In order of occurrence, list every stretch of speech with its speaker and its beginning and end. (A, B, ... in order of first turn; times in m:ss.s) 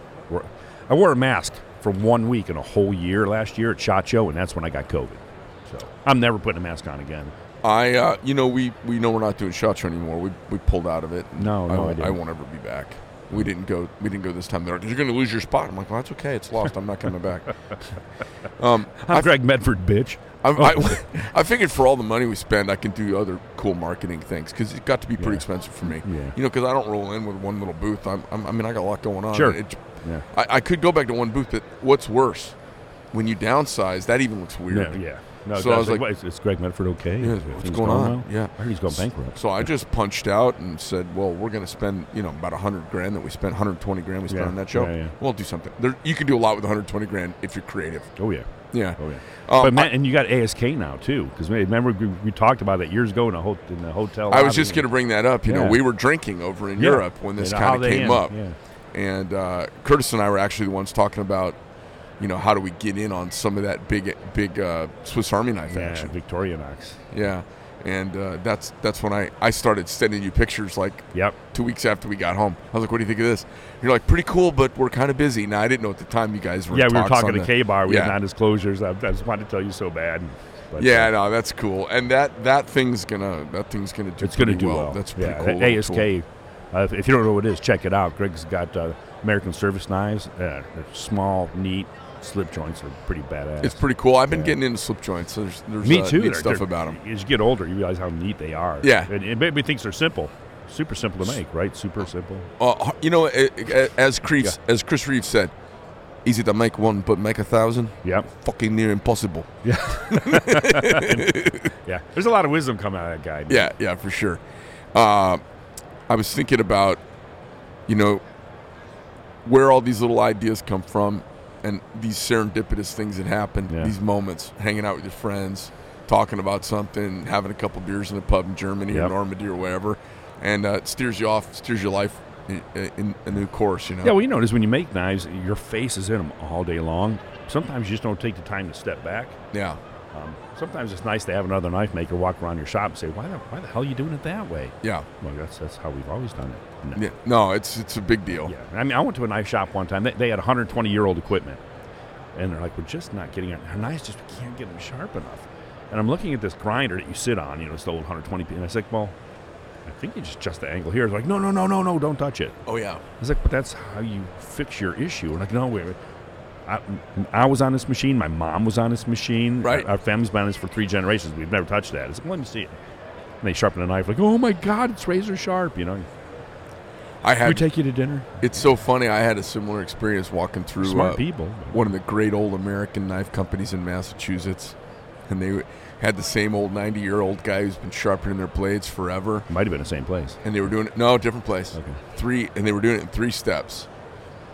0:00.3-0:07.3 A
0:07.6-0:17.5 B
0:11.4-0:12.2 A
0:18.6-0:19.3 B
0:19.0-0:21.1 A
0:20.4-0:29.8 B
0:25.2-0:25.4 A
0:26.0-0:26.4 A
0:29.3-0:30.2 A
0:30.3-0:32.6 B
0:33.1-0:35.0 B
0:34.7-0:39.6 A
0:35.5-0:36.0 B
0:37.2-0:48.1 B
0:44.3-0:45.1 A
0:48.2-0:54.9 A
0:48.7-0:49.9 B
0:54.3-0:58.3 B
0:55.4-0:55.8 A
0:56.8-0:58.6 A
0:58.9-1:01.6 B
1:02.2-1:06.1 B
1:05.7-1:07.0 A
1:07.1-1:18.2 B
1:16.7-1:21.1 A
1:20.8-1:26.1 B
1:24.2-1:34.6 A
1:33.6-1:37.0 B
1:35.8-1:42.5 A
1:38.8-1:39.1 B
1:42.6-1:45.5 B
1:46.2-1:51.6 B
1:48.0-1:48.3 A
1:49.6-1:53.7 A
1:53.5-1:54.4 B
1:54.9-1:55.4 B
1:56.1-1:57.0 B
1:57.9-1:58.2 B
1:59.4-2:14.1 B
2:14.0-2:19.4 A
2:19.5-2:19.8 B
2:20.1-2:27.0 A
2:27.0-2:28.5 B
2:28.4-2:31.6 A
2:32.4-2:39.1 A
2:39.9-2:42.6 A
2:42.7-2:43.0 B
2:43.2-2:46.0 A
2:46.7-2:52.7 A
2:49.6-2:49.9 B
2:53.4-2:56.1 A
2:57.2-2:57.7 B
2:57.4-2:58.6 A
2:58.4-3:01.2 B
3:00.8-3:01.8 A
3:01.7-3:04.8 B
3:05.3-3:09.5 B
3:09.5-3:10.4 A
3:10.4-3:13.9 B
3:11.7-3:12.0 A